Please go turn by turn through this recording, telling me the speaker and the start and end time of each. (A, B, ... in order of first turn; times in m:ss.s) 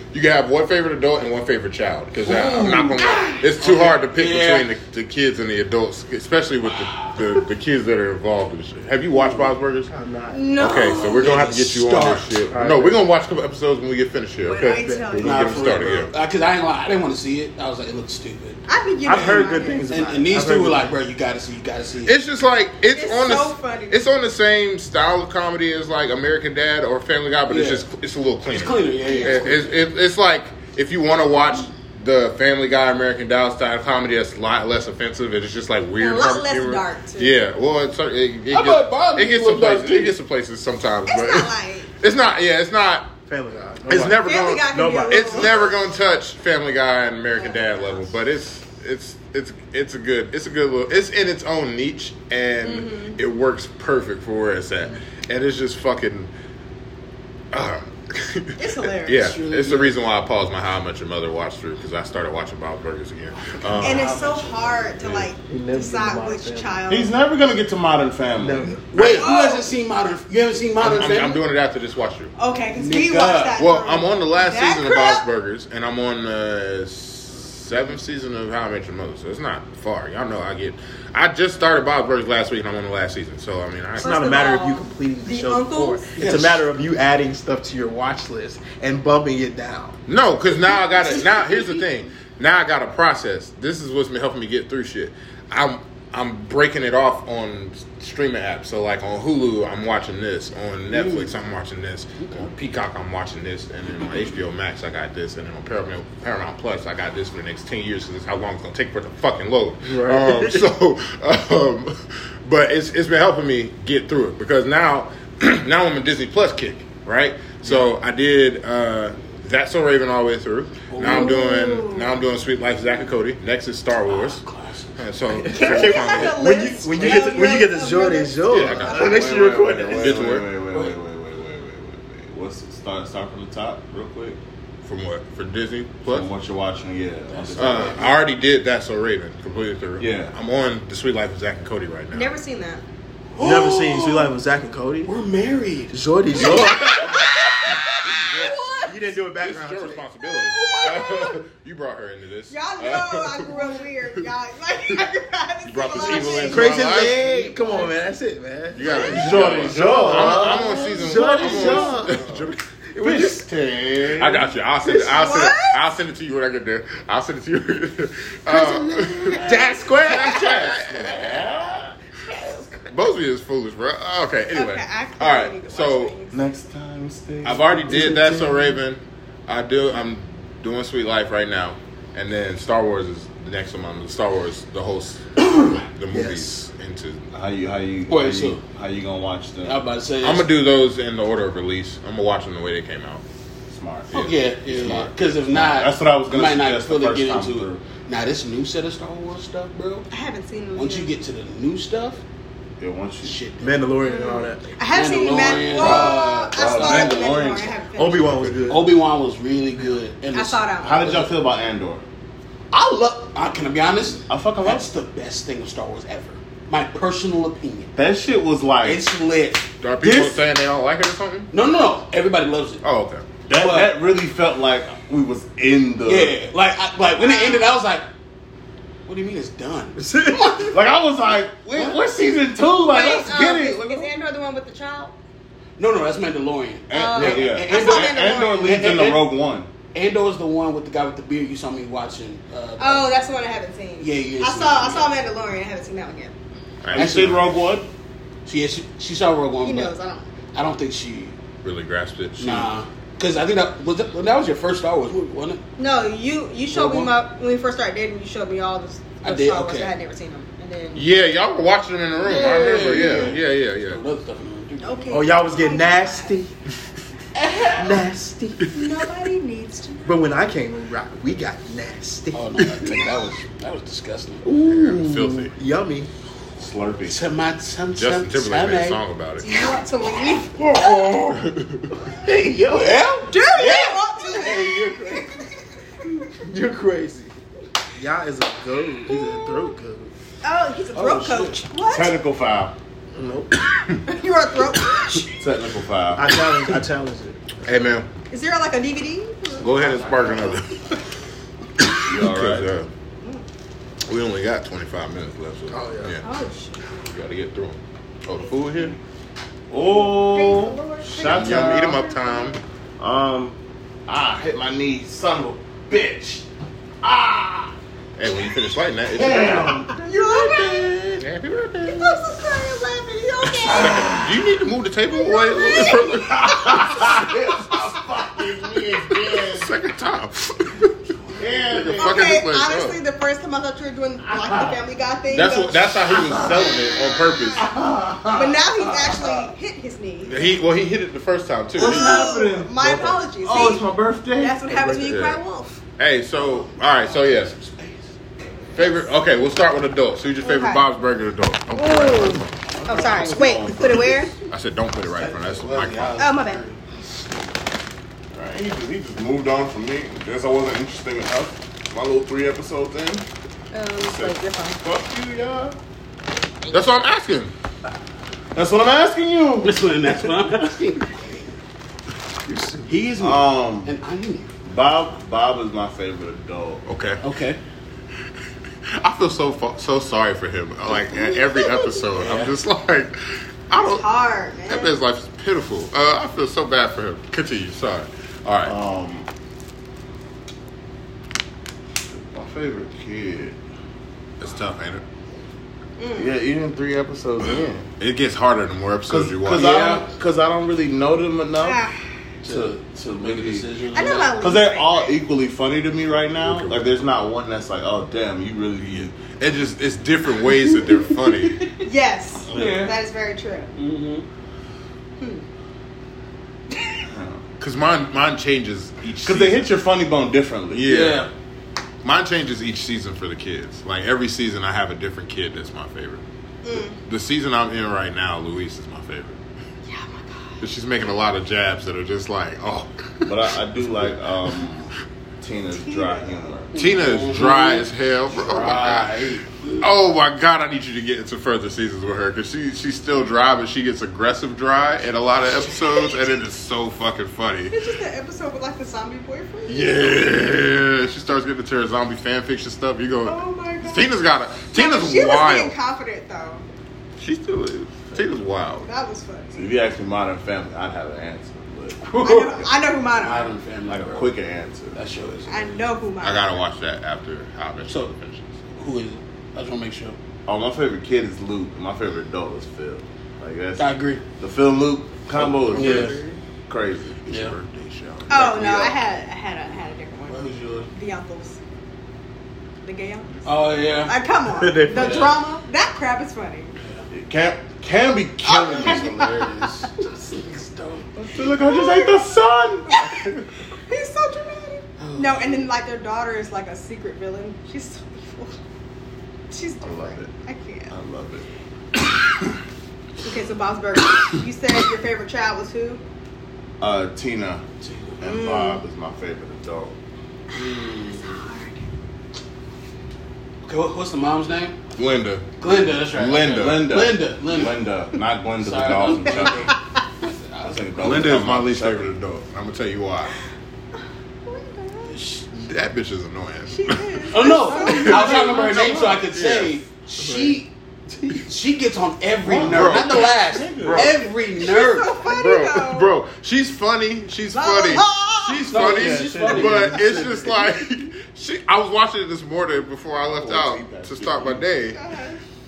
0:00.1-0:09.9 A
0:02.2-0:04.7 B
0:09.2-0:10.5 C
0:10.3-0:11.3 D
0:10.6-0:16.1 A
0:10.6-0:12.3 B
0:12.5-0:13.0 C
0:14.4-0:15.8 D
0:14.7-0:15.2 C
0:15.2-0:22.1 B
0:18.7-0:19.9 D
0:19.0-0:20.9 C
0:22.0-0:43.1 A
0:22.9-0:24.0 D
0:27.5-0:27.8 B
0:28.4-0:29.8 B
0:29.0-0:29.5 D
0:36.0-0:37.3 D
0:38.5-0:40.1 B
0:41.1-0:41.9 D
0:43.3-0:45.5 C
0:43.9-0:56.3 A
0:44.1-0:45.7 D
0:47.4-0:48.0 D
0:52.6-0:53.2 D
0:57.5-1:04.1 A
0:58.6-0:59.3 D
0:59.2-0:59.9 B
1:03.5-1:05.2 B
1:03.8-1:07.1 D
1:05.4-1:06.8 C
1:06.9-1:08.8 E
1:08.4-1:08.9 C
1:08.9-1:11.4 B
1:08.9-1:09.3 A
1:09.2-1:09.7 D
1:10.8-1:12.3 A
1:12.4-1:15.2 D
1:12.7-1:13.6 B
1:13.6-1:24.4 A
1:24.0-1:26.1 D
1:24.0-1:30.0 C
1:26.2-1:26.6 B
1:30.1-2:04.4 A
1:31.0-1:31.8 B
1:40.9-1:41.3 B
1:42.2-1:42.5 B
1:49.8-1:50.6 C
2:00.9-2:01.4 B
2:01.0-2:02.2 D
2:04.1-2:05.0 B
2:05.0-2:06.5 A
2:05.3-2:10.3 C
2:05.5-2:09.4 D
2:07.0-2:07.4 A
2:08.5-2:09.1 A
2:08.8-2:14.4 E
2:09.9-2:10.5 A
2:10.7-2:11.0 B
2:14.8-2:16.3 A
2:16.0-2:18.1 E
2:17.3-2:18.1 B
2:17.6-2:22.3 A
2:20.0-2:20.3 E
2:22.1-2:22.8 D
2:23.3-2:24.4 B
2:23.4-2:25.1 C
2:25.0-2:26.8 B
2:25.9-2:27.1 C
2:26.3-2:27.2 A
2:28.0-2:33.5 A
2:28.4-2:28.9 D
2:28.8-2:30.0 C
2:30.6-2:31.0 B
2:32.5-2:37.0 D
2:35.6-2:37.2 A
2:36.2-2:37.9 B
2:36.4-2:42.4 C
2:38.7-2:42.6 A
2:38.8-2:39.3 D
2:39.1-2:42.5 E
2:42.9-2:43.5 C
2:43.0-2:44.5 E
2:44.2-2:51.4 A
2:44.8-2:45.8 D
2:48.5-2:50.8 C
2:49.2-2:51.9 E
2:52.9-2:56.1 A
2:54.5-2:56.4 D
2:56.3-2:58.4 E
2:57.4-3:07.2 A
2:57.9-2:58.7 C
3:06.1-3:06.6 C
3:07.3-3:09.8 E
3:08.1-3:08.6 B
3:09.6-3:10.5 B
3:10.2-3:13.2 A
3:13.7-3:17.8 E
3:14.1-3:15.1 A
3:14.1-3:20.1 B
3:20.1-3:21.1 D
3:20.7-3:22.2 B
3:22.8-3:23.4 E
3:23.2-3:23.9 B
3:23.6-3:24.8 C
3:24.0-3:28.3 D
3:24.9-3:27.5 B
3:25.5-3:27.8 E
3:27.9-3:28.9 C
3:28.7-3:31.3 B
3:30.3-3:31.1 D
3:30.8-3:32.0 E
3:32.7-3:37.9 B
3:34.3-3:34.9 E
3:37.9-3:39.0 E
3:38.8-3:40.4 B
3:39.8-3:41.5 A
3:41.5-3:42.8 B
3:42.8-3:43.2 A
3:43.5-3:46.4 E
3:43.5-3:44.0 B
3:46.0-3:48.1 B
3:47.2-3:47.7 D
3:49.0-3:50.7 B
3:50.0-3:50.8 C
3:50.7-3:54.1 E
3:52.9-3:55.1 D
3:55.8-3:59.4 B
3:56.9-3:59.7 E
3:56.9-3:58.7 D
3:59.9-4:03.1 B
4:02.8-4:06.3 D
4:04.0-4:05.1 B
4:06.8-4:07.5 A
4:06.9-4:07.9 E
4:06.9-4:07.4 B
4:08.4-4:09.9 B
4:09.6-4:10.2 D
4:10.5-4:11.3 B
4:11.6-4:12.7 A
4:12.4-4:15.6 B
4:15.8-4:21.1 D
4:16.7-4:17.1 B
4:19.2-4:19.9 B
4:20.9-4:24.0 A
4:22.2-4:25.4 B
4:24.8-4:26.4 D
4:25.1-4:26.5 C
4:27.3-4:27.9 B
4:27.7-4:28.7 C
4:28.7-4:30.4 D
4:30.0-4:32.5 C
4:32.3-4:34.4 B
4:32.6-4:33.0 A
4:34.4-4:36.1 C
4:34.6-4:35.5 A
4:36.6-4:37.2 E
4:37.0-4:39.0 B
4:38.0-4:39.5 A
4:39.4-4:41.1 D
4:41.3-4:41.9 A
4:42.0-4:43.0 C
4:42.6-4:45.4 B
4:43.3-4:45.5 D
4:46.3-4:47.3 C
4:48.0-4:50.1 C
4:50.4-4:52.1 D
4:50.9-4:51.6 B
4:51.9-4:52.8 E
4:53.1-4:53.6 C
4:54.0-4:55.4 D
4:55.4-4:56.4 E
4:56.1-4:57.4 C
4:57.6-4:58.1 A
4:58.3-5:00.1 D
4:59.6-5:01.0 A
4:59.7-5:00.6 B
5:02.0-5:02.9 A
5:02.0-5:02.7 E
5:04.1-5:06.2 A
5:05.7-5:06.2 C
5:06.2-5:07.0 D
5:07.0-5:09.0 A
5:09.7-5:12.0 E
5:09.8-5:12.5 D
5:11.2-5:12.6 A
5:13.0-5:16.4 E
5:17.0-5:17.7 E
5:18.2-5:19.8 A
5:19.1-5:21.2 E
5:20.0-5:21.0 D
5:21.2-5:22.2 A
5:21.9-5:24.2 D
5:23.7-5:24.3 E
5:23.7-5:27.3 A
5:25.1-5:27.2 D
5:26.4-5:29.7 E
5:29.4-5:30.9 A
5:31.2-5:31.5 B
5:31.4-5:32.4 E
5:31.7-5:33.0 A
5:32.0-5:36.0 D
5:34.2-5:34.8 E
5:35.3-5:37.7 A
5:36.1-5:36.7 E
5:37.6-5:39.5 E
5:38.3-5:40.5 D
5:40.2-5:42.1 A
5:41.8-5:44.6 E
5:41.8-5:45.8 D
5:44.7-5:45.2 C
5:45.0-5:45.4 A
5:46.0-5:47.5 A
5:46.3-5:48.8 B
5:48.7-5:52.5 A
5:50.4-5:50.8 D
5:51.7-5:54.3 D
5:52.8-5:53.2 B
5:52.8-5:54.3 E
5:54.5-5:56.2 A
5:55.1-5:57.2 B
5:56.2-5:56.6 D
5:58.3-6:03.2 E
6:03.7-6:04.8 D
6:04.0-6:05.8 E
6:06.7-6:07.5 A
6:08.5-6:09.9 E
6:09.6-6:11.5 B
6:12.4-6:12.9 C
6:12.8-6:14.5 B
6:13.2-6:13.9 E
6:14.6-6:16.8 E
6:16.8-6:17.2 A
6:17.2-6:17.6 B
6:18.9-6:24.0 A
6:22.1-6:22.5 B
6:23.7-6:25.0 D
6:24.7-6:28.7 A
6:28.6-6:29.3 E
6:32.1-6:33.6 E
6:34.4-6:35.0 A
6:36.0-6:36.3 D
6:36.2-6:37.9 E
6:38.0-6:39.9 A
6:39.1-6:41.8 E
6:39.5-6:40.0 B
6:41.6-6:42.0 D
6:42.4-6:43.7 E
6:42.4-6:44.3 B
6:43.9-6:45.1 D
6:44.4-6:49.1 E
6:46.4-6:46.9 A
6:48.9-6:51.6 A
6:50.7-6:51.8 B
6:51.8-6:53.7 D
6:52.4-6:52.9 E
6:52.5-6:52.9 B
6:53.7-6:54.2 B
6:57.0-6:57.4 E
6:57.6-6:59.7 A
6:59.2-7:00.9 E
7:00.7-7:01.3 A
7:00.8-7:01.3 B
7:02.0-7:06.2 A
7:06.6-7:07.0 D
7:06.9-7:09.4 A
7:09.9-7:10.4 D
7:10.6-7:13.3 A
7:13.2-7:16.7 E
7:15.9-7:16.2 D
7:16.7-7:19.8 B
7:16.7-7:19.2 A
7:19.8-7:27.7 A
7:27.7-7:30.1 D
7:29.7-7:35.7 A
7:33.2-7:34.1 D
7:34.7-7:36.6 D
7:37.2-7:38.9 A
7:38.8-7:39.7 D
7:39.5-7:42.1 E
7:42.0-7:44.3 B
7:42.2-7:43.5 D
7:43.9-7:45.0 E
7:44.9-7:45.8 B
7:45.5-7:46.6 D
7:46.2-7:48.6 A
7:48.8-7:50.2 B
7:50.4-7:56.2 E
7:53.8-7:54.2 B
7:55.3-7:56.4 A
7:55.7-7:56.2 B
7:55.8-7:56.1 C
7:56.7-7:57.2 E
7:57.2-7:58.6 A
7:57.3-7:57.5 B
7:58.3-8:00.4 D
7:58.3-7:58.9 E
8:00.3-8:00.9 B
8:00.9-8:01.6 D
8:02.8-8:06.7 D
8:03.4-8:04.2 B
8:04.4-8:05.3 C
8:04.9-8:05.4 B
8:06.8-8:07.0 B
8:07.1-8:09.2 E
8:08.4-8:09.8 D
8:08.5-8:11.1 B
8:11.1-8:13.4 E
8:11.6-8:12.2 D
8:12.9-8:13.2 D
8:13.9-8:18.6 D
8:15.0-8:15.7 B
8:19.5-8:20.9 D
8:19.8-8:20.3 E
8:20.9-8:21.4 E
8:23.2-8:26.0 D
8:26.8-8:27.6 E
8:27.8-8:28.2 B
8:28.2-8:29.9 E
8:28.2-8:28.8 D
8:30.5-8:31.5 B
8:31.2-8:31.8 D
8:33.6-8:34.8 B
8:34.9-8:35.6 A
8:35.6-8:37.8 B
8:36.1-8:36.9 A
8:36.3-8:39.7 E
8:38.6-8:41.4 B
8:40.6-8:42.2 E
8:41.0-8:43.3 A
8:44.4-8:45.1 D
8:45.1-8:45.4 B
8:45.5-8:49.7 A
8:46.7-8:49.0 D
8:47.3-8:50.7 B
8:50.2-8:51.4 C
8:51.4-8:55.4 B
8:52.4-8:54.2 E
8:52.7-8:54.2 A
8:54.6-8:56.1 D
8:55.3-9:05.0 A
8:57.5-8:58.7 D
8:58.6-9:00.0 B
8:58.8-9:00.7 C
9:03.2-9:04.7 E
9:04.9-9:05.4 D